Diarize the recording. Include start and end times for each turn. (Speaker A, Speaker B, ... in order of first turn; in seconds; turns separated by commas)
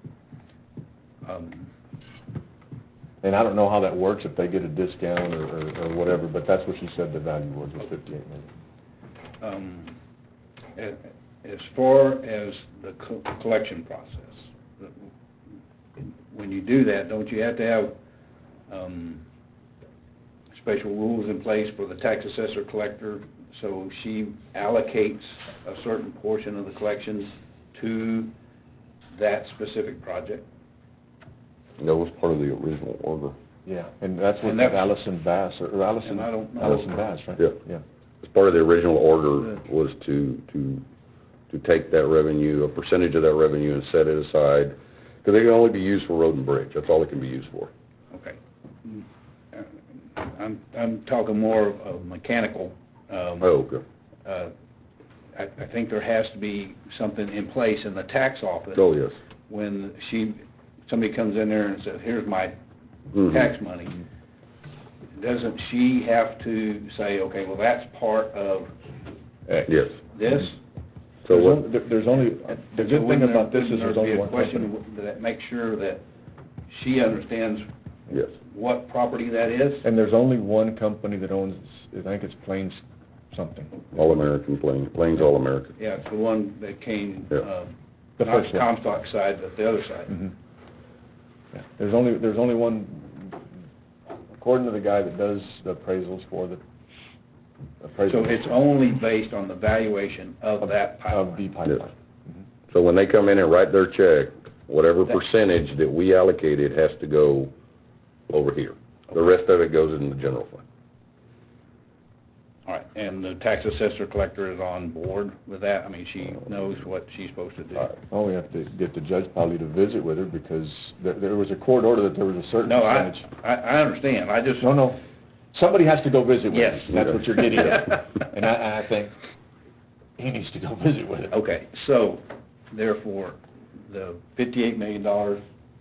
Speaker A: 1.2-1.7, Speaker B: 3.2-8.5, Speaker A: 9.4-9.9, Speaker A: 10.8-14.9, Speaker A: 16.0-17.9, Speaker A: 18.7-19.2, Speaker A: 20.5-28.3, Speaker A: 29.1-30.4, Speaker C: 31.8-33.4, Speaker B: 33.6-37.8, Speaker A: 34.4-34.9, Speaker A: 36.0-36.8, Speaker C: 38.2-40.8, Speaker C: 41.5-47.7, Speaker A: 48.1-53.5, Speaker C: 53.4-53.8, Speaker A: 54.2-54.5, Speaker A: 55.3-58.9, Speaker C: 58.7-59.2, Speaker A: 59.5-62.5, Speaker C: 63.1-63.5, Speaker A: 63.3-64.0, Speaker A: 65.1-68.7, Speaker C: 69.7-70.0, Speaker A: 70.1-70.6, Speaker C: 71.2-71.6, Speaker B: 71.3-74.7, Speaker A: 72.7-76.0, Speaker A: 76.7-77.7, Speaker A: 78.4-79.8, Speaker B: 79.8-83.8, Speaker C: 83.9-85.7, Speaker A: 85.8-90.2, Speaker B: 88.2-88.7, Speaker B: 91.5-93.4, Speaker B: 94.3-96.6, Speaker B: 97.8-98.6, Speaker A: 98.0-101.4, Speaker B: 100.6-102.4, Speaker C: 102.7-107.5, Speaker C: 108.3-110.6, Speaker A: 112.7-118.0, Speaker B: 118.1-123.3, Speaker A: 122.6-124.8, Speaker B: 124.6-125.0, Speaker B: 125.5-129.2, Speaker A: 126.5-128.0, Speaker B: 130.2-131.4, Speaker A: 131.3-135.4